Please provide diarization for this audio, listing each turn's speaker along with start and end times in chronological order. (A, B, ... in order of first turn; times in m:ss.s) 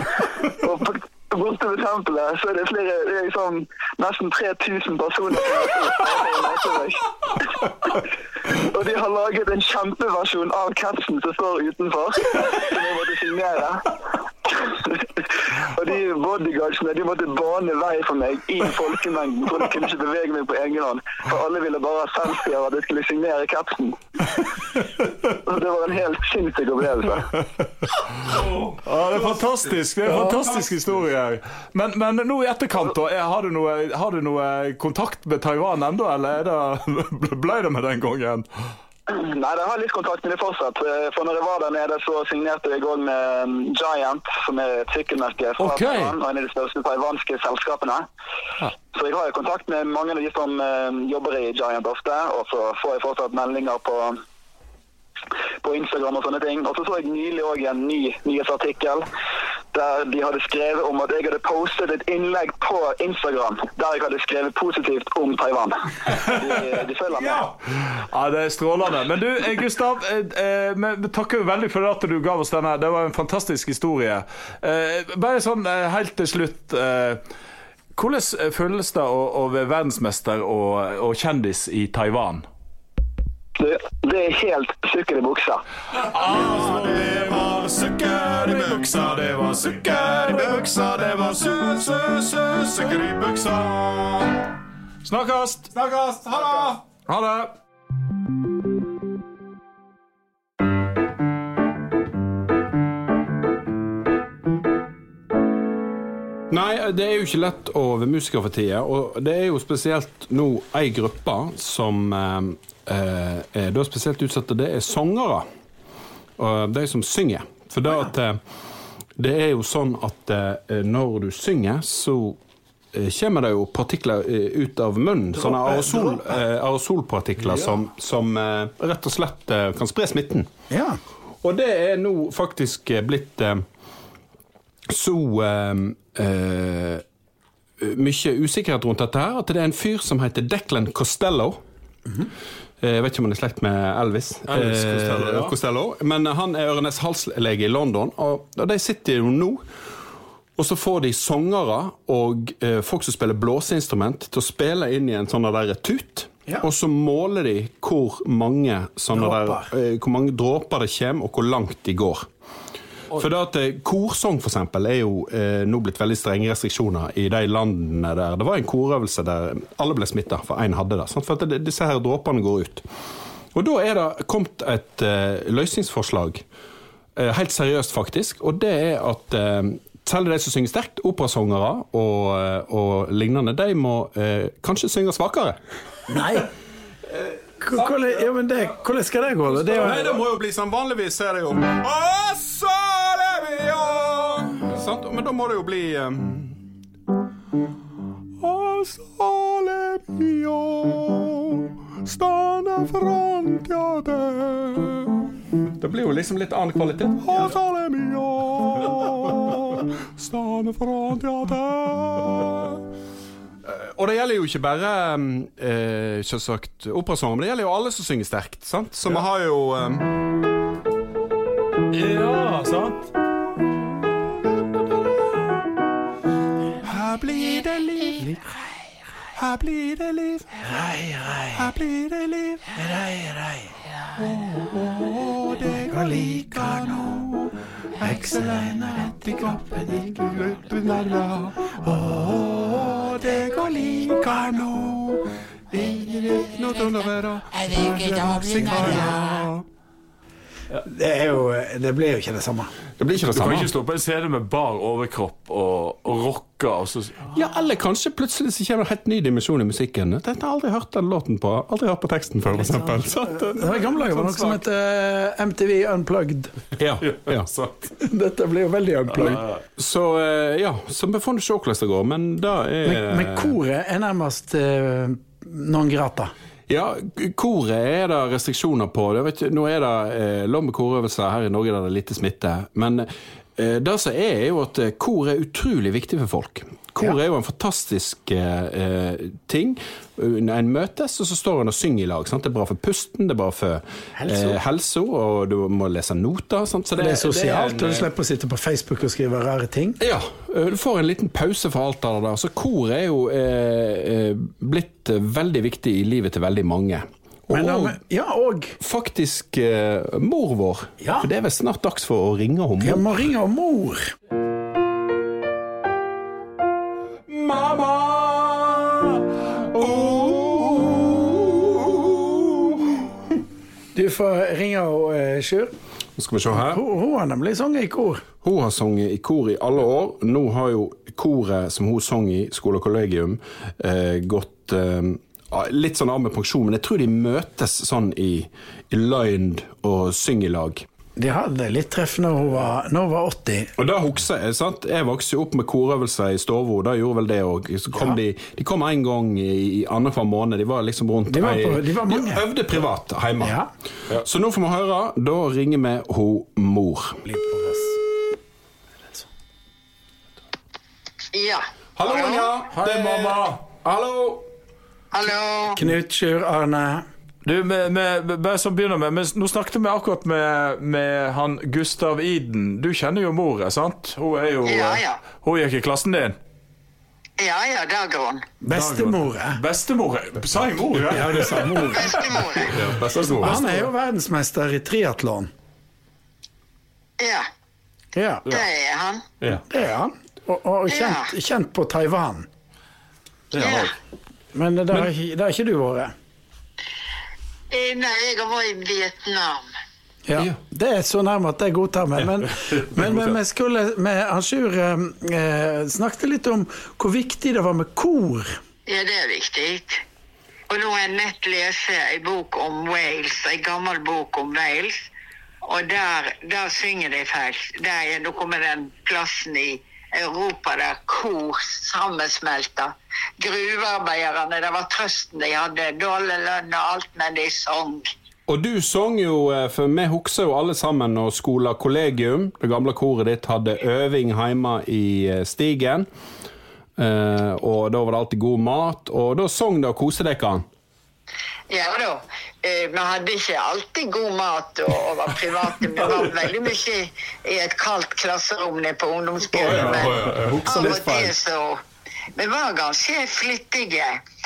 0:00.5-0:24.0 A
0:25.3-0:27.3 A
0:28.2-0:38.4 B
0:39.1-0:48.0 A
0:45.6-0:46.1 B
0:48.9-0:54.2 A
0:55.6-0:59.0 A
0:59.7-1:07.5 A
1:06.1-1:06.6 B
1:08.0-1:17.2 B
1:18.0-1:22.4 B
1:23.6-1:25.6 A
1:26.0-1:31.2 B
1:26.2-1:34.2 C
1:35.0-1:35.7 B
1:35.8-1:36.8 D
1:37.0-1:37.5 B
1:46.5-1:55.4 D
1:56.4-1:58.4 D
1:59.2-2:02.4 D
2:02.9-2:10.5 D
2:05.4-2:06.4 E
2:10.7-2:11.0 E
2:11.4-2:13.6 D
2:14.9-2:17.0 D
2:17.8-2:21.6 D
2:22.8-2:29.6 D
2:24.5-2:25.5 B
2:30.6-2:42.3 D
2:39.1-2:39.7 E
2:43.1-2:52.8 D
2:53.5-2:56.4 D
2:57.2-3:05.6 D
3:06.1-3:06.5 E
3:07.1-3:08.2 D
3:07.6-3:10.2 E
3:09.5-3:16.6 D
3:18.4-3:32.8 D
3:33.6-3:40.2 D
3:41.9-3:43.1 B
3:46.8-3:48.4 D
3:49.4-3:50.6 D
3:50.6-3:51.7 E
3:51.5-3:52.7 D
3:52.7-3:53.7 E
3:54.2-4:09.6 D
3:55.9-3:56.8 E
3:58.0-3:59.0 E
4:10.8-4:12.7 E
4:13.0-4:13.7 D
4:13.3-4:17.2 B
4:17.3-4:24.6 D
4:22.8-4:26.5 E
4:26.8-4:27.5 D
4:27.0-4:27.7 B
4:28.0-4:29.4 E
4:29.2-4:29.5 B
4:29.8-4:33.6 D
4:32.8-4:36.3 E
4:36.7-4:58.1 D
4:54.2-4:54.6 E
4:57.0-5:00.0 E
5:00.0-5:08.0 D
5:07.5-5:08.8 E
5:08.8-5:13.1 D
5:11.0-5:11.3 E
5:12.8-5:14.1 E
5:17.3-5:23.1 D
5:23.9-5:25.7 E
5:26.2-5:26.8 D
5:26.5-5:28.2 E
5:28.4-5:40.8 D
5:41.2-5:43.7 E
5:43.8-5:53.6 D
5:51.3-5:52.4 E
5:53.4-5:53.7 E
5:54.2-5:57.2 D
5:57.2-5:58.0 E
6:01.3-6:02.5 F
6:02.0-6:04.4 D
6:02.7-6:03.6 B
6:05.1-6:05.9 F
6:05.8-6:07.0 E
6:07.4-6:16.4 B
6:14.6-6:15.2 F
6:17.4-6:18.4 F
6:18.6-6:19.6 E
6:18.7-6:22.0 B
6:21.1-6:22.2 E
6:21.9-6:22.8 F
6:22.7-6:23.8 D
6:23.4-6:25.5 E
6:27.2-6:27.4 F
6:28.1-6:28.5 E
6:28.5-6:29.2 F
6:29.7-6:32.5 E
6:30.9-6:31.3 F
6:33.5-6:33.9 B
6:33.5-6:33.9 F
6:34.5-6:36.1 E
6:37.7-6:39.6 F
6:40.3-6:48.6 E
6:48.9-6:50.0 F
6:50.7-6:55.0 F
6:55.6-7:08.1 F
7:08.5-7:16.1 D
7:17.0-7:20.6 D
7:21.7-7:31.8 F
7:30.0-7:30.4 C
7:30.0-7:31.0 B
7:30.6-7:31.2 D
7:32.4-7:34.2 F